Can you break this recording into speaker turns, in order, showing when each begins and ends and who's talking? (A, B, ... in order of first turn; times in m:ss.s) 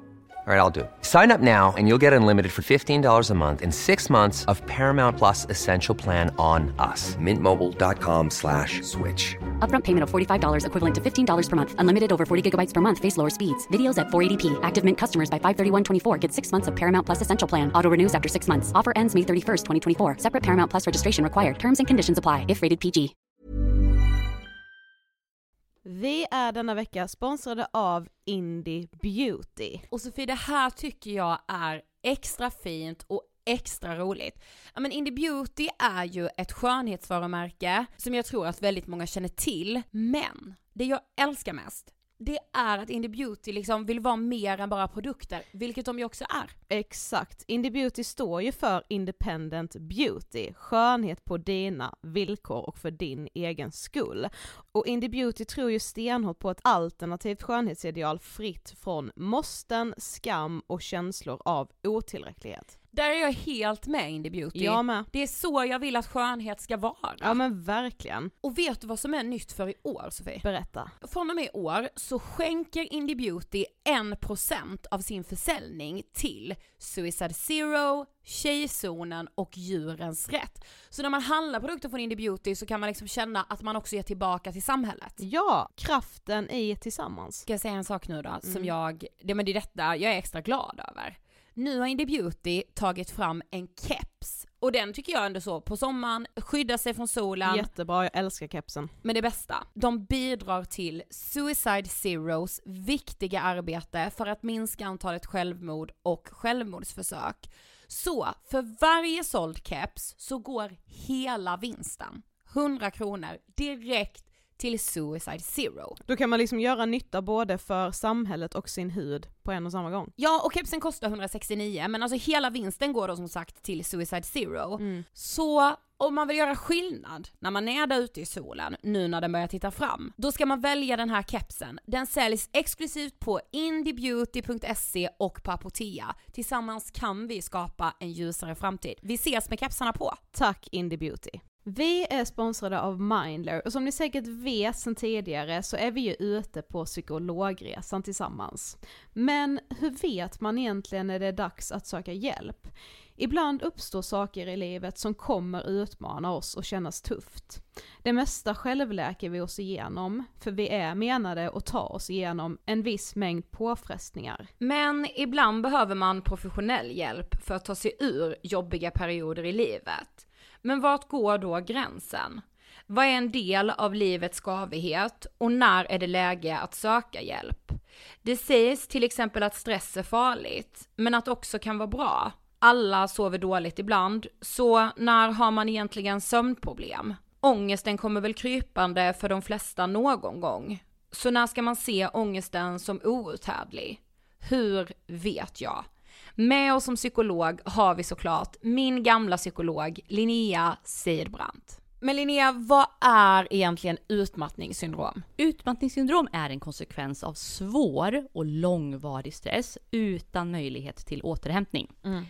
0:00.4-0:09.4 A
0:09.6-0:23.1 B
0:25.8-0:29.8 C
0:29.9-0:46.6 D
0:46.7-1:02.7 C
1:02.9-1:07.3 D
1:04.5-1:05.1 C
1:07.2-1:08.3 C
1:08.4-1:10.5 D
1:10.4-1:10.9 C
1:11.0-1:25.2 D
1:25.2-1:27.4 C
1:27.5-1:37.7 D
1:28.4-1:28.7 C
1:37.4-1:38.9 C
1:39.0-1:56.0 D
1:56.1-2:00.1 C
2:00.2-2:20.2 D
2:04.8-2:05.0 C
2:20.3-2:44.5 C
2:44.6-3:15.9 D
3:16.4-3:25.2 D
3:25.4-3:31.9 E